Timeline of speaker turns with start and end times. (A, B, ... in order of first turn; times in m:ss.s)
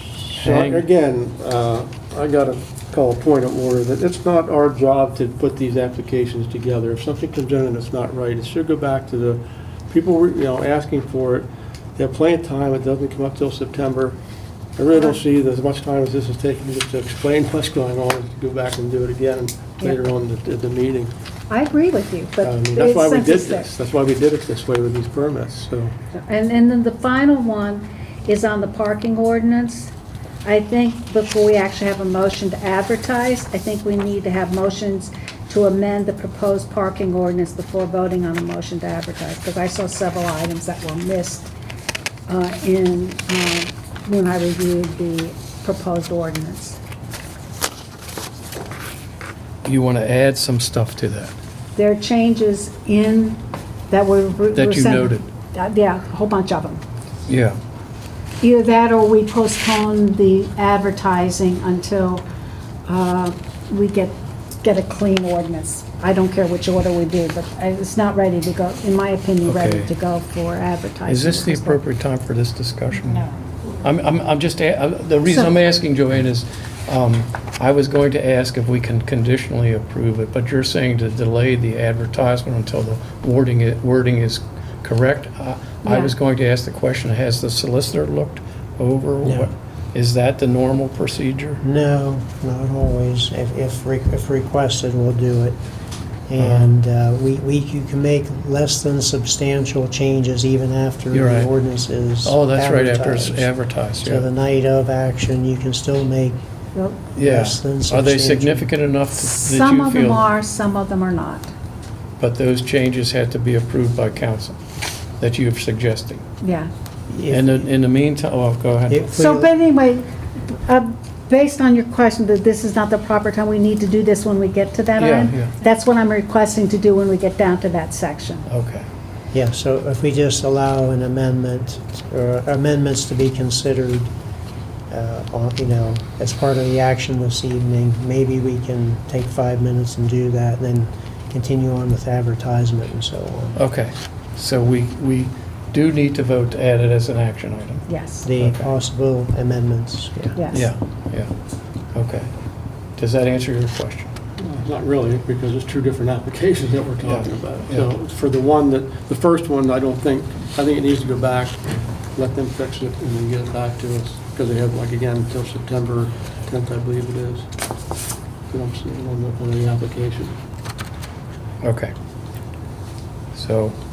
0:00.4-0:00.8 A
0:00.4-0:14.2 B
0:14.8-0:21.1 B
0:21.5-0:23.7 C
0:22.4-0:25.9 B
0:26.1-0:29.9 C
0:30.4-0:41.5 C
0:42.3-0:46.8 C
0:49.6-0:51.3 A
0:51.8-0:56.8 C
0:54.5-0:55.3 A
0:57.3-0:57.6 A
0:58.4-1:02.2 C
1:02.9-1:11.8 C
1:09.4-1:09.9 A
1:11.1-1:13.3 A
1:13.8-1:31.6 A
1:25.8-1:26.1 C
1:29.2-1:29.5 D
1:31.6-1:35.6 D
1:36.3-1:46.4 D
1:36.4-1:36.8 A
1:41.1-1:41.5 A
1:42.2-1:44.3 A
1:47.2-1:50.3 A
1:47.2-1:48.7 D
1:49.2-1:51.5 C
1:52.2-1:54.6 A
1:55.2-1:56.2 A
1:56.4-1:56.7 C
1:57.1-1:57.7 D
1:57.3-1:59.1 A
1:58.9-1:59.5 D
1:59.2-2:00.1 C
2:00.6-2:08.5 C
2:05.0-2:05.5 A
2:08.5-2:08.9 A
2:09.3-2:14.1 D
2:14.9-2:23.6 D
2:23.6-2:27.9 A
2:27.9-2:28.3 C
2:28.2-2:30.4 D
2:28.4-2:28.7 A
2:30.4-2:30.7 C
2:30.5-2:31.3 A
2:31.9-2:32.3 A
2:33.0-2:34.1 A
2:34.4-2:47.5 B
2:37.0-2:37.9 A
2:48.5-2:50.4 B
2:51.6-2:51.9 A
2:53.3-2:53.8 A